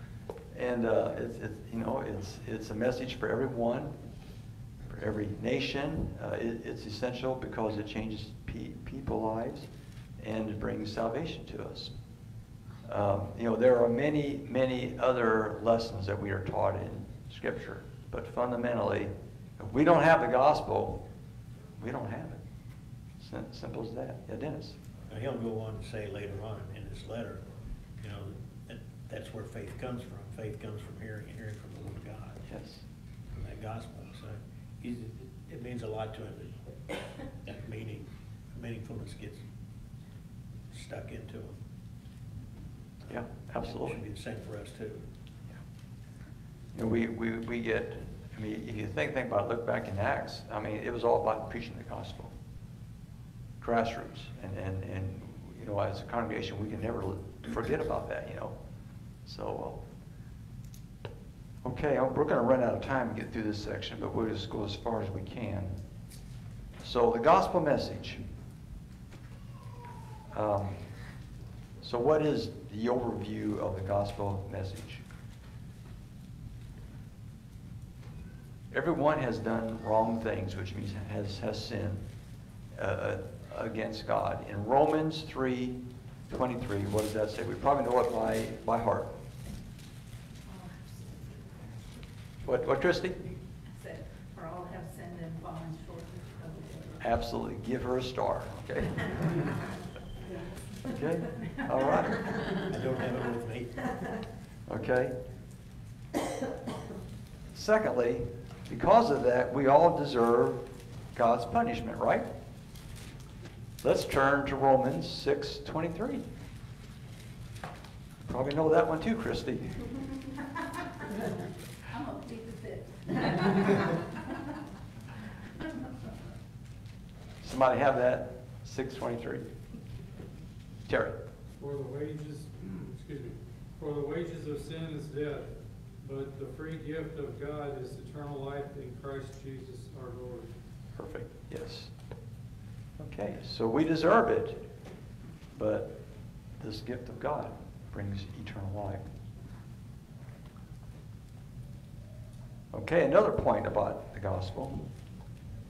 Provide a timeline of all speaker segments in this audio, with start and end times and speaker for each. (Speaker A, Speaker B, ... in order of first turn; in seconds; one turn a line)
Speaker A: 0.5-4.0
Speaker A: 4.9-9.7
Speaker A: 10.2-11.9
Speaker A: 12.8-21.1
Speaker A: 21.8-22.4
Speaker A: 23.2-24.8
Speaker B: 25.1-27.4
Speaker B: 28.0-32.4
Speaker A: 32.5-32.8
Speaker B: 33.3-36.5
Speaker B: 37.4-39.4
Speaker B: 40.7-41.5
Speaker A: 43.1-44.0
Speaker B: 43.1-45.0
Speaker A: 46.7-52.3
Speaker A: 53.6-58.6
Speaker A: 59.2-59.8
Speaker A: 61.6-65.8
Speaker A: 66.8-68.2
Speaker A: 70.3-70.9
Speaker A: 71.8-75.0
Speaker A: 78.7-82.0
Speaker A: 82.7-89.1
Speaker C: 90.5-90.9
Speaker A: 92.4-93.3
Speaker C: 93.7-97.0
Speaker A: 97.0-99.2
Speaker A: 100.9-102.3
Speaker B: 102.7-104.1
Speaker A: 104.7-105.2
Speaker A: 107.5-112.3
Speaker A: 113.8-116.3
Speaker A: 118.2-119.9
Speaker C: 121.9-123.7
Speaker A: 127.4-129.5
Speaker A: 130.9-131.2
Speaker D: 131.6-140.5
Speaker A: 140.9-141.9
Speaker A: 143.0-144.7
Speaker A: 145.5-146.0
Speaker A: 146.6-149.1
Speaker A: 152.7-154.9